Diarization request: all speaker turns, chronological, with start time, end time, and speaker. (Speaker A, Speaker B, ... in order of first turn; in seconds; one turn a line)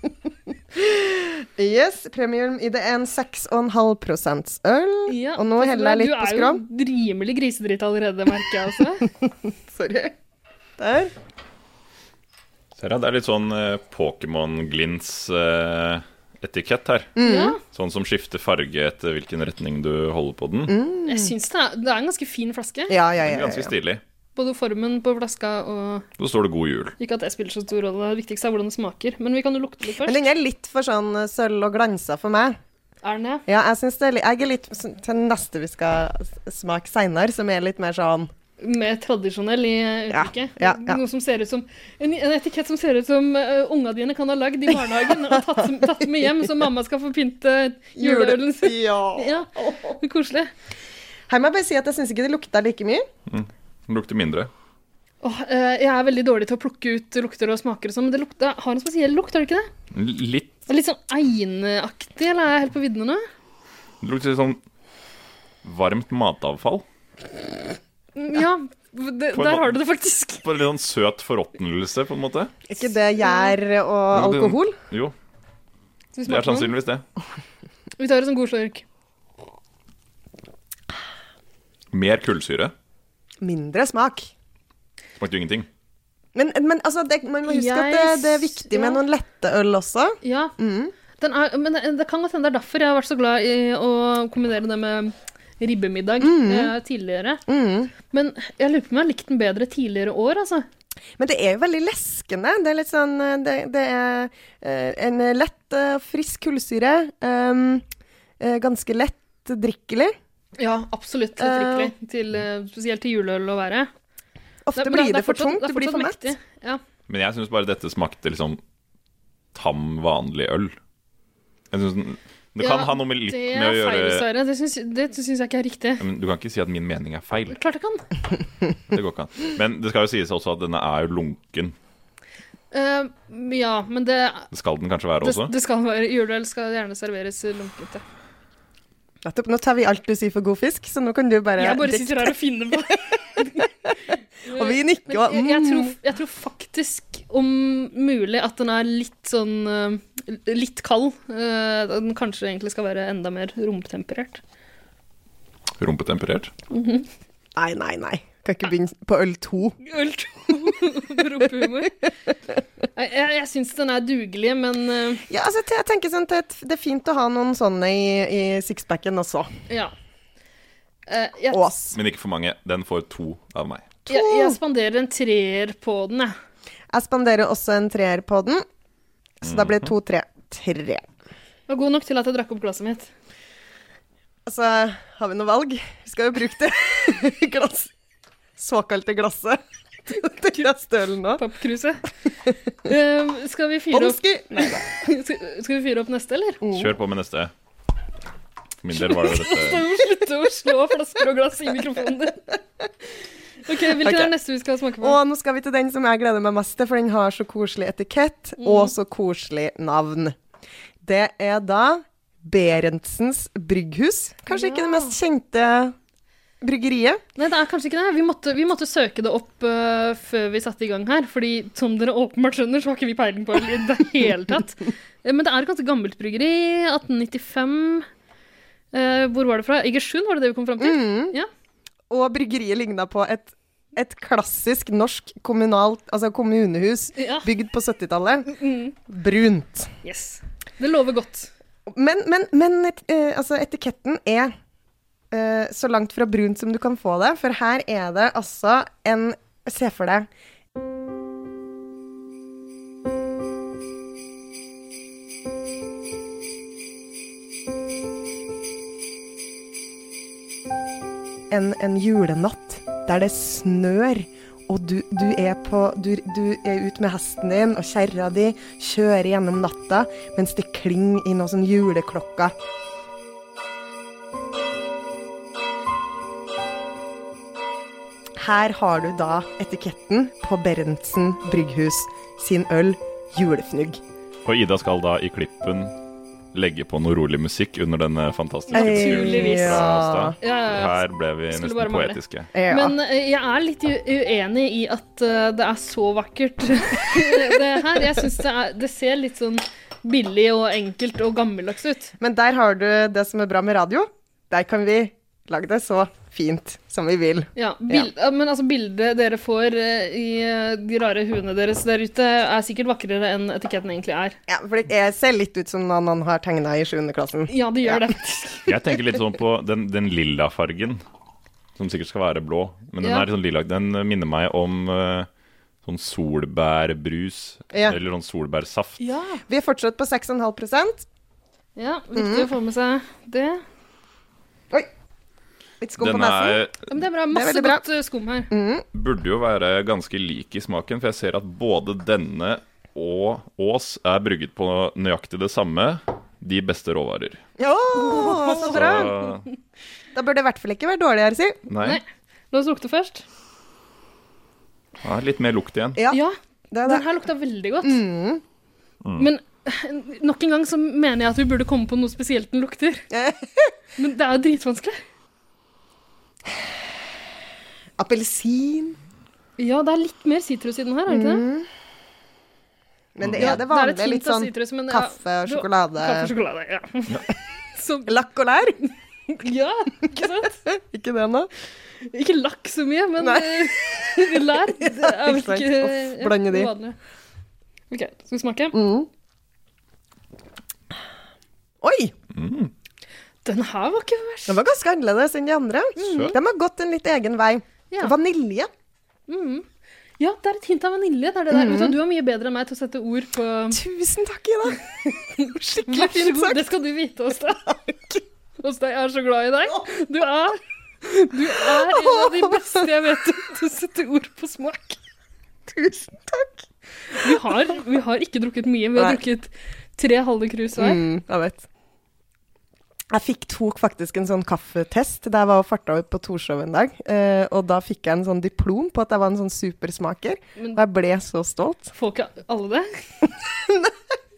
Speaker A: 0.7-6.6
Speaker B: 5.1-9.1
Speaker A: 9.2-10.2
Speaker A: 10.8-11.1
Speaker C: 12.8-20.7
Speaker A: 17.1-17.6
Speaker B: 17.2-17.6
Speaker A: 20.7-21.3
Speaker B: 21.1-22.9
Speaker A: 22.9-23.7
Speaker C: 23.2-24.0
Speaker B: 24.4-26.1
Speaker C: 26.2-26.9
Speaker B: 27.0-30.2
Speaker A: 30.0-32.6
Speaker B: 33.0-33.4
Speaker A: 33.5-38.3
Speaker B: 38.6-50.5
Speaker A: 40.1-41.0
Speaker A: 45.3-45.6
Speaker A: 48.0-50.0
Speaker A: 51.3-53.0
Speaker C: 53.3-54.5
Speaker B: 55.2-59.7
Speaker C: 59.9-60.5
Speaker B: 60.7-63.2
Speaker C: 64.0-64.6
Speaker C: 65.6-66.8
Speaker B: 68.2-70.4
Speaker C: 69.3-69.8
Speaker C: 70.4-72.5
Speaker A: 72.7-74.8
Speaker B: 73.2-73.5
Speaker C: 74.1-75.1
Speaker B: 76.2-76.7
Speaker C: 76.3-77.0
Speaker B: 78.0-78.8
Speaker C: 81.9-82.7
Speaker A: 83.4-84.3
Speaker C: 85.2-85.7
Speaker A: 86.3-90.9
Speaker B: 87.4-89.0
Speaker B: 90.2-90.5
Speaker B: 91.2-97.4
Speaker A: 96.2-96.7
Speaker A: 97.5-97.9
Speaker B: 98.1-100.7
Speaker A: 101.2-107.8
Speaker A: 108.4-110.1
Speaker B: 110.6-113.9
Speaker A: 111.4-111.9
Speaker A: 114.7-116.3
Speaker B: 114.8-116.8
Speaker C: 117.1-118.6
Speaker C: 119.5-120.8
Speaker C: 121.7-124.2
Speaker B: 122.6-126.0
Speaker C: 126.0-127.6
Speaker B: 127.5-128.0
Speaker C: 128.9-131.7
Speaker B: 132.7-134.5
Speaker C: 134.5-135.5
Speaker B: 135.2-138.0
Speaker A: 139.2-142.3
Speaker B: 141.6-143.7
Speaker A: 143.4-143.9
Speaker B: 144.4-154.4
Speaker A: 144.5-145.9
Speaker C: 155.8-156.5
Speaker B: 156.7-157.1
Speaker A: 157.6-159.8
Speaker B: 159.8-162.0
Speaker B: 162.9-165.3
Speaker A: 165.3-169.5
Speaker B: 171.1-171.6
Speaker A: 171.5-172.0
Speaker C: 171.9-173.9
Speaker A: 174.1-174.6
Speaker B: 174.1-176.3
Speaker A: 176.9-178.6
Speaker A: 179.4-181.1
Speaker C: 179.4-179.9
Speaker B: 181.7-183.1
Speaker A: 184.4-187.9
Speaker A: 188.6-191.4
Speaker B: 191.4-192.0
Speaker B: 192.8-196.6
Speaker A: 193.9-195.0
Speaker A: 196.6-196.9
Speaker C: 196.7-197.5
Speaker C: 198.8-199.9
Speaker B: 198.9-202.5
Speaker B: 203.6-205.2
Speaker A: 203.9-204.3
Speaker A: 205.0-210.3
Speaker B: 208.6-208.9
Speaker A: 211.0-215.9
Speaker B: 214.5-215.1
Speaker A: 216.6-217.2
Speaker B: 217.3-228.1
Speaker B: 228.9-231.5
Speaker A: 230.8-231.3
Speaker A: 232.1-238.5
Speaker B: 237.2-237.5
Speaker B: 238.5-238.9
Speaker A: 239.1-239.9
Speaker B: 240.0-241.5
Speaker A: 241.9-244.5
Speaker A: 245.3-250.3
Speaker A: 261.5-272.5
Speaker A: 278.4-284.0
Speaker C: 284.4-285.9
Speaker C: 286.5-292.5
Speaker B: 288.7-302.1
Speaker A: 288.7-290.4
Speaker A: 292.5-292.9
Speaker A: 302.2-308.1
Speaker B: 307.6-314.4
Speaker A: 314.5-318.1
Speaker B: 317.5-318.8
Speaker C: 318.7-321.0
Speaker C: 321.8-325.3
Speaker B: 323.0-323.2
Speaker C: 325.8-329.0
Speaker A: 327.7-328.0
Speaker B: 329.0-329.4
Speaker A: 329.5-331.1
Speaker B: 331.8-333.6
Speaker A: 332.1-332.5
Speaker A: 335.8-336.6
Speaker C: 336.0-336.8
Speaker B: 336.9-338.5
Speaker A: 337.3-337.9
Speaker A: 338.5-338.8
Speaker C: 338.9-347.4
Speaker A: 347.6-349.1
Speaker B: 348.0-349.1
Speaker C: 348.2-349.5
Speaker A: 350.1-351.6
Speaker C: 351.7-352.0
Speaker B: 351.8-353.2
Speaker C: 355.0-356.0
Speaker B: 356.1-358.0
Speaker A: 356.7-357.1
Speaker A: 357.8-358.4
Speaker B: 359.2-363.1
Speaker A: 363.1-363.7
Speaker B: 364.0-365.0
Speaker A: 368.0-369.0
Speaker B: 369.6-371.4
Speaker A: 371.1-371.7
Speaker A: 373.1-376.3
Speaker C: 373.2-373.6
Speaker B: 373.3-377.2
Speaker B: 377.7-378.2
Speaker A: 378.1-378.8
Speaker B: 378.8-380.6
Speaker A: 380.6-381.5
Speaker B: 382.0-386.9
Speaker A: 383.2-386.7
Speaker B: 387.9-388.8
Speaker A: 388.7-389.1
Speaker A: 391.8-392.1
Speaker C: 392.3-392.7
Speaker B: 393.4-394.6
Speaker A: 394.5-398.7
Speaker C: 396.0-396.3
Speaker B: 396.0-396.3
Speaker B: 399.3-399.6
Speaker B: 400.2-403.8
Speaker A: 401.5-402.0
Speaker A: 403.7-406.7
Speaker B: 405.4-407.8
Speaker A: 407.7-407.9
Speaker B: 408.6-415.0
Speaker A: 411.5-412.8
Speaker A: 415.7-416.6
Speaker B: 417.1-421.0
Speaker A: 417.2-417.4
Speaker A: 420.8-421.6
Speaker A: 423.1-431.9
Speaker B: 431.9-432.9
Speaker A: 433.4-434.0